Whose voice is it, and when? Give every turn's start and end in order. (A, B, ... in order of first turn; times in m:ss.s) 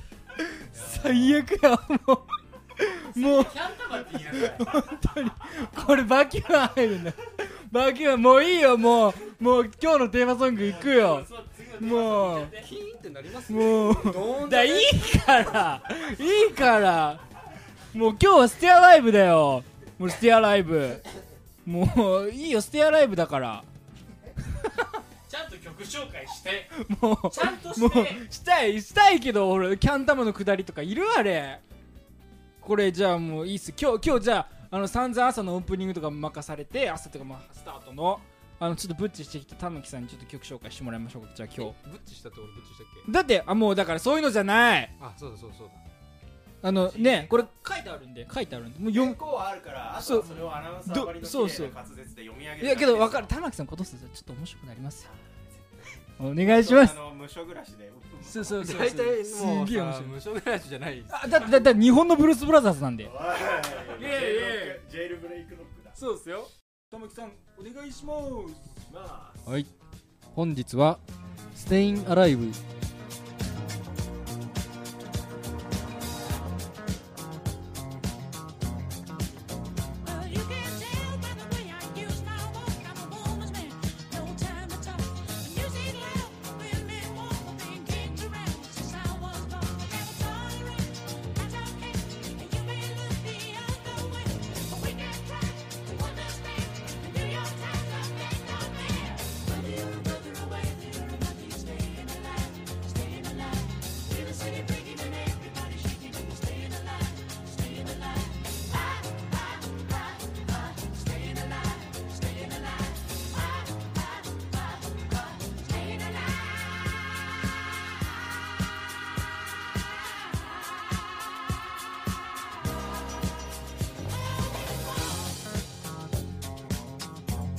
0:00.7-0:03.5 A
0:00.7-0:01.4 B
0:03.1-0:04.9 C
0:04.5-0:12.6 A
0:10.5-0:12.7 C
0:12.6-0:15.0 D
0:13.5-0:17.2 A
0:17.9-0:21.0 A
0:21.6-0:23.7 A
0:25.3-0:26.8 C
0:26.8-0:31.6 A
0:27.3-0:28.3 C
0:32.6-0:41.8 A
0:41.6-0:43.1 D
0:43.1-0:44.9 A
0:45.0-0:45.8 D
0:46.6-0:49.2 A
0:46.7-0:47.5 B
0:48.9-0:53.4 B
0:50.0-0:50.3 A
0:50.8-0:51.8 A
0:52.6-0:55.1 A
0:55.0-0:58.8 B
0:56.2-0:57.0 A
0:58.2-1:00.2 A
0:58.6-1:01.2 D
1:01.1-1:03.1 A
1:03.0-1:06.0 B
1:03.9-1:04.8 A
1:06.0-1:08.7 A
1:08.9-1:09.5 B
1:09.5-1:09.7 D
1:10.3-1:11.0 D
1:11.5-1:12.6 D
1:20.0-1:56.9 E
2:04.3-2:05.3 E